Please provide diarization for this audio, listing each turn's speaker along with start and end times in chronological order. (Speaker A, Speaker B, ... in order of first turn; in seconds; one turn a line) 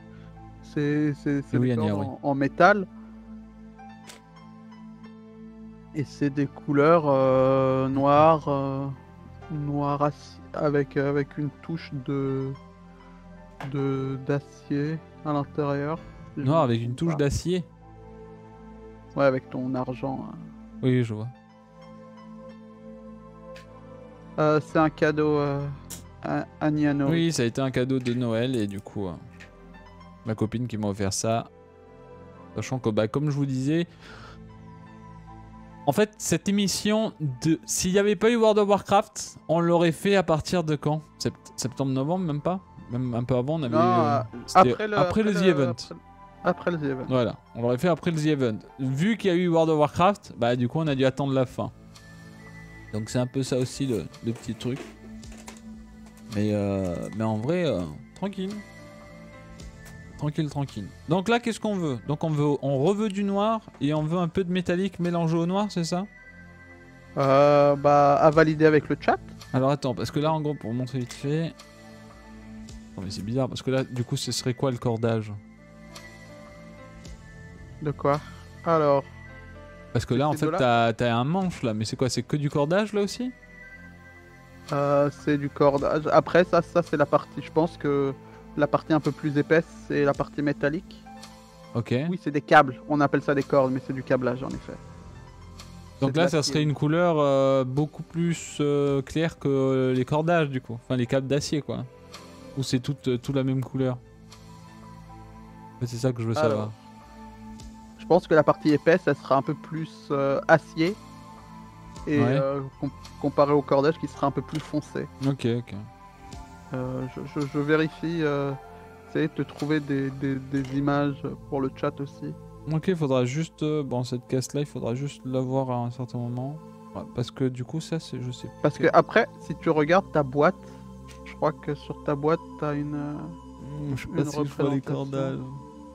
Speaker A: 0.6-2.9
Speaker B: 1.5-2.1
Speaker A: 5.9-9.0
Speaker B: 7.9-8.3
Speaker A: 9.5-12.6
Speaker A: 13.6-17.2
Speaker B: 16.4-17.7
Speaker A: 19.1-20.5
Speaker B: 20.8-21.3
Speaker A: 24.4-27.2
Speaker B: 27.1-29.2
Speaker B: 30.2-31.5
Speaker B: 32.5-33.9
Speaker B: 35.9-45.9
Speaker A: 43.7-47.1
Speaker B: 47.1-51.7
Speaker B: 52.9-54.9
Speaker B: 56.3-58.6
Speaker B: 60.2-66.1
Speaker A: 67.2-69.3
Speaker B: 69.5-71.6
Speaker B: 73.0-75.4
Speaker A: 77.8-79.1
Speaker B: 79.9-83.3
Speaker A: 80.1-80.7
Speaker A: 84.7-91.0
Speaker B: 91.8-92.2
Speaker A: 92.1-94.8
Speaker B: 96.0-101.9
Speaker A: 96.0-96.7
Speaker B: 102.6-104.0
Speaker B: 105.8-106.7
Speaker A: 106.3-106.8
Speaker A: 108.0-111.0
Speaker A: 112.0-115.1
Speaker B: 112.2-112.5
Speaker B: 115.2-115.9
Speaker A: 116.7-122.4
Speaker B: 122.7-128.9
Speaker A: 128.6-130.7
Speaker A: 131.2-133.4
Speaker B: 133.6-135.6
Speaker A: 133.9-135.4